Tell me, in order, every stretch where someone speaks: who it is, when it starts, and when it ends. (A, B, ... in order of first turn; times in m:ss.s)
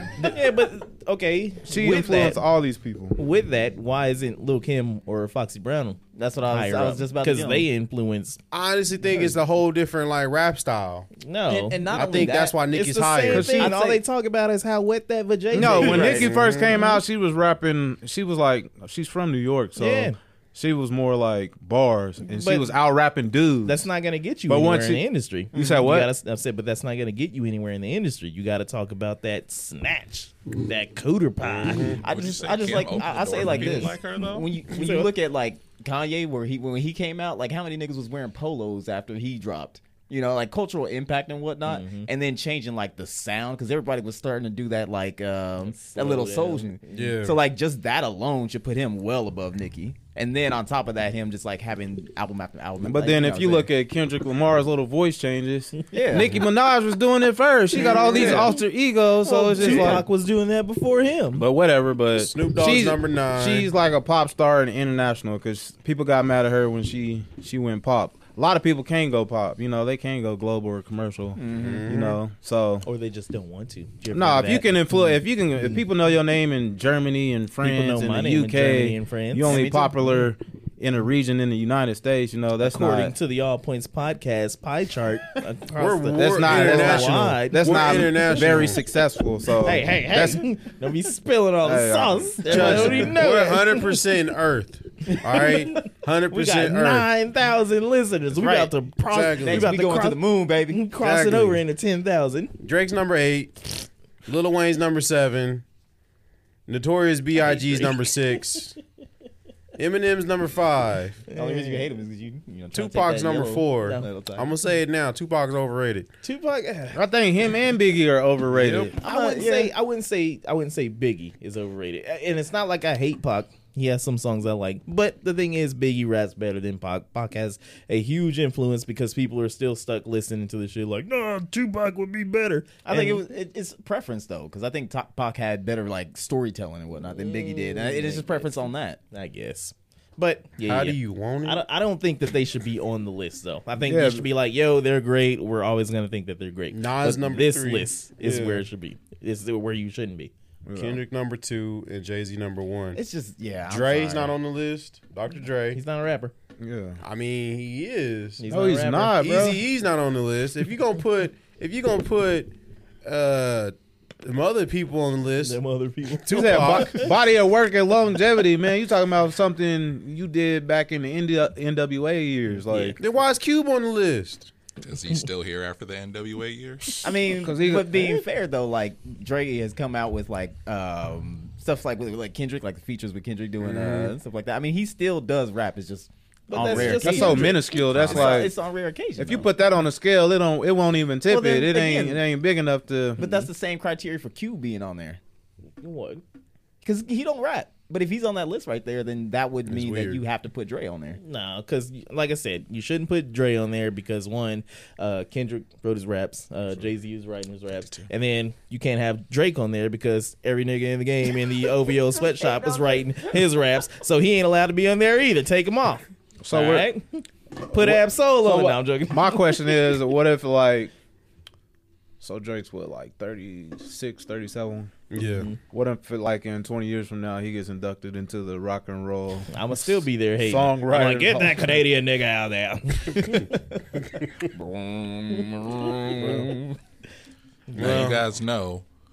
0:00.2-0:02.4 A
0:01.6-0:03.2 B
0:03.2-0:08.4 A
0:06.2-0:07.7 C
0:08.5-0:11.1 D
0:11.2-0:16.3 A
0:11.5-0:12.6 C
0:11.9-0:13.6 D
0:13.3-0:13.7 B
0:13.4-0:14.0 C
0:15.5-0:23.8 B
0:15.6-0:16.3 C
0:16.1-0:16.8 D
0:19.8-0:20.2 A
0:22.3-0:22.7 A
0:23.6-0:32.0 A
0:24.5-0:26.1 B
0:25.5-0:25.9 C
0:31.5-0:32.0 D
0:31.8-0:34.5 E
0:32.0-0:53.7 C
0:34.7-0:35.1 A
0:41.6-0:42.1 A
0:45.6-0:47.1 A
0:46.9-0:47.4 D
0:52.8-1:00.1 B
0:55.9-0:56.4 C
0:57.7-0:58.5 D
0:57.8-0:58.6 A
0:59.2-1:01.4 A
1:01.3-1:12.8 B
1:02.1-1:03.7 D
1:11.4-1:11.9 C
1:11.5-1:12.2 D
1:12.8-1:15.1 A
1:14.1-1:23.1 B
1:17.6-1:19.9 A
1:19.5-1:20.0 C
1:22.6-1:28.4 A
1:25.8-1:28.8 D
1:26.1-1:30.4 B
1:29.6-1:34.0 A
1:31.6-1:33.2 B
1:32.4-1:37.1 D
1:32.5-1:33.0 C
1:35.0-1:42.5 A
1:38.3-1:38.7 C
1:39.1-1:39.7 D
1:39.4-1:40.9 C
1:41.0-1:41.6 D
1:42.6-1:45.6 D
1:46.7-1:48.8 D
1:47.4-1:47.9 A
1:49.8-1:51.2 D
1:51.3-1:51.8 A
1:51.3-1:54.5 C
1:52.7-1:56.1 D
1:53.4-1:54.1 A
1:56.2-1:57.0 A
1:56.9-1:59.0 B
1:58.5-1:58.9 D
1:58.9-1:59.7 C
1:59.0-2:13.2 A
2:12.8-2:19.0 C
2:17.2-2:18.6 A
2:19.1-2:30.3 A
2:20.6-2:21.6 D
2:23.8-2:24.2 B
2:26.7-2:28.6 D
2:30.6-2:31.0 B
2:30.7-2:33.0 D
2:32.9-2:34.3 C
2:33.7-2:35.8 D
2:35.7-2:36.3 A
2:36.6-2:37.0 B
2:37.0-2:38.4 D
2:38.4-2:39.2 A
2:38.5-2:39.6 B
2:39.1-2:42.5 D
2:43.0-2:45.6 D
2:45.4-2:47.1 A
2:46.2-2:47.1 D
2:46.3-2:53.0 B
2:52.7-2:53.0 A
2:53.0-2:54.5 D
2:54.8-2:57.0 E
2:57.0-3:09.5 C
2:57.4-2:58.2 B
3:03.6-3:04.1 D
3:06.5-3:08.3 A
3:06.5-3:08.5 B
3:09.2-3:13.2 B
3:11.3-3:12.2 C
3:13.2-3:15.2 C
3:15.8-3:16.2 A
3:16.8-3:21.2 C
3:19.7-3:20.2 D
3:21.2-3:39.8 A
3:32.5-3:32.8 C
3:36.4-3:36.9 B
3:37.7-3:40.9 B
3:42.2-3:44.9 B
3:45.1-3:45.5 D
3:45.7-3:49.6 B
3:49.5-3:53.6 A
3:50.4-3:51.8 B
3:54.5-3:56.5 C
3:56.1-3:56.5 D
3:56.2-3:56.5 B
3:57.7-3:58.1 A
3:57.7-3:58.2 D
3:57.7-3:58.8 E